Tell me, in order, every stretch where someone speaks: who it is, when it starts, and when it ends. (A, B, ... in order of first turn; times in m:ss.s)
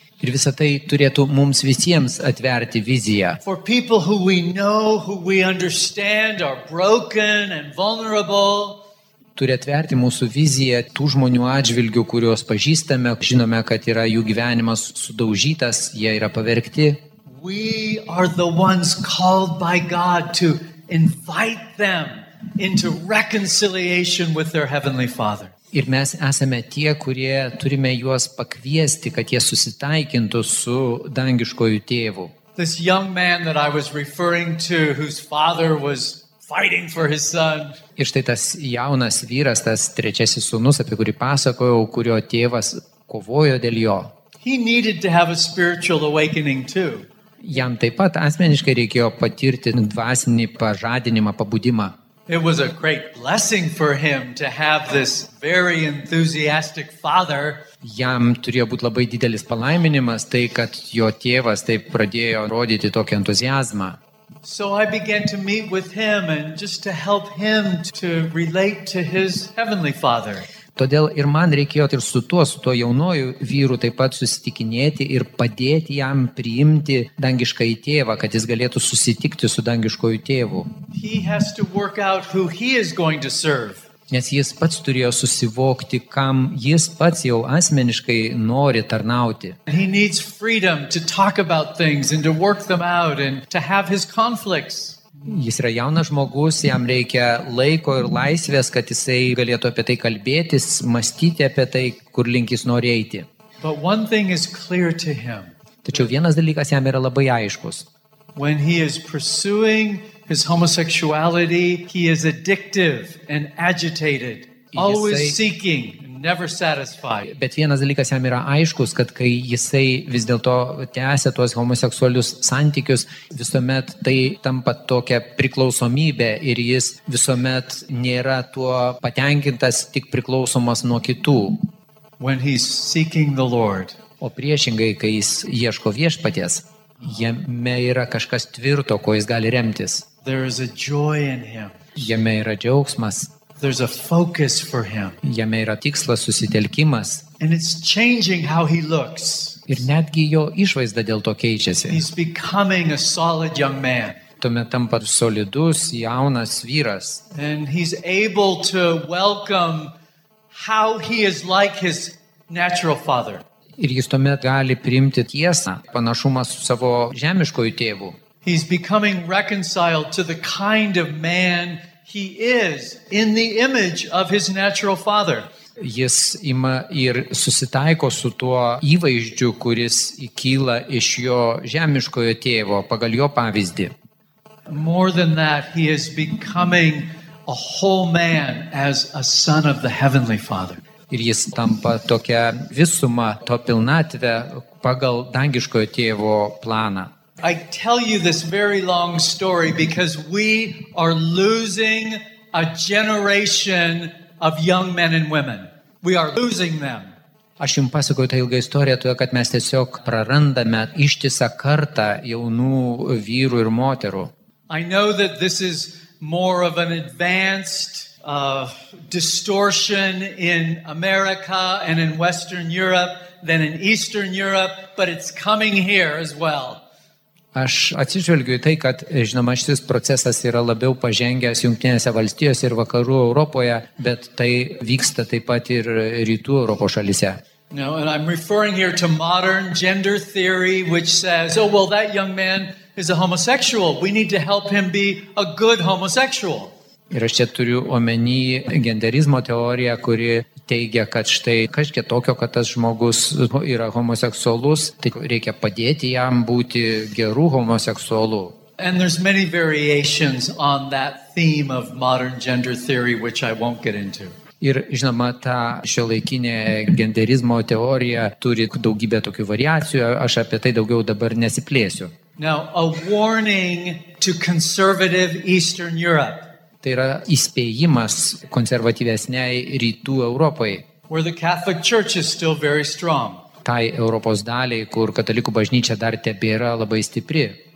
0:00.2-0:03.4 A
0:03.4-0:08.8 B
0:09.4-0:17.0 A
0:17.3-0:25.5 B
0:25.7-0:32.3 A
0:32.6-0:37.8 B
0:38.0-0:44.1 A
0:44.4-0:47.1 B
0:47.4-0:52.0 A
0:52.3-0:57.6 B
0:57.8-1:04.0 A
1:04.4-1:10.5 B
1:10.8-1:20.7 A
1:20.9-1:23.8 B
1:24.1-1:29.6 A
1:29.7-1:35.0 B
1:35.3-1:43.3 A
1:43.6-1:45.5 B
1:45.8-1:47.9 A
1:48.4-1:57.3 B
1:54.7-1:55.4 A
1:57.2-2:11.6 A
2:12.2-2:14.0 B
2:14.2-2:20.1 A
2:20.2-2:21.8 B
2:22.0-2:23.3 A
2:23.6-2:25.2 B
2:25.2-2:27.3 A
2:27.4-2:29.7 B
2:29.7-2:32.0 A
2:31.9-2:34.2 B
2:34.4-2:37.2 A
2:37.3-2:39.9 B
2:40.5-2:43.4 B
2:43.8-2:48.2 A
2:48.4-2:55.5 B
2:55.8-3:03.9 A
3:04.7-3:10.8 B
3:11.1-3:17.1 A
3:17.4-3:27.1 B
3:27.6-3:34.3 A
3:34.7-3:46.8 B
3:47.5-3:57.4 A
3:57.7-4:06.7 B
4:07.1-4:18.6 A
4:18.8-4:24.4 B
4:24.6-4:32.1 A
4:32.4-4:36.5 B
4:36.8-4:40.9 A
4:41.1-4:43.4 B
4:43.6-4:47.6 A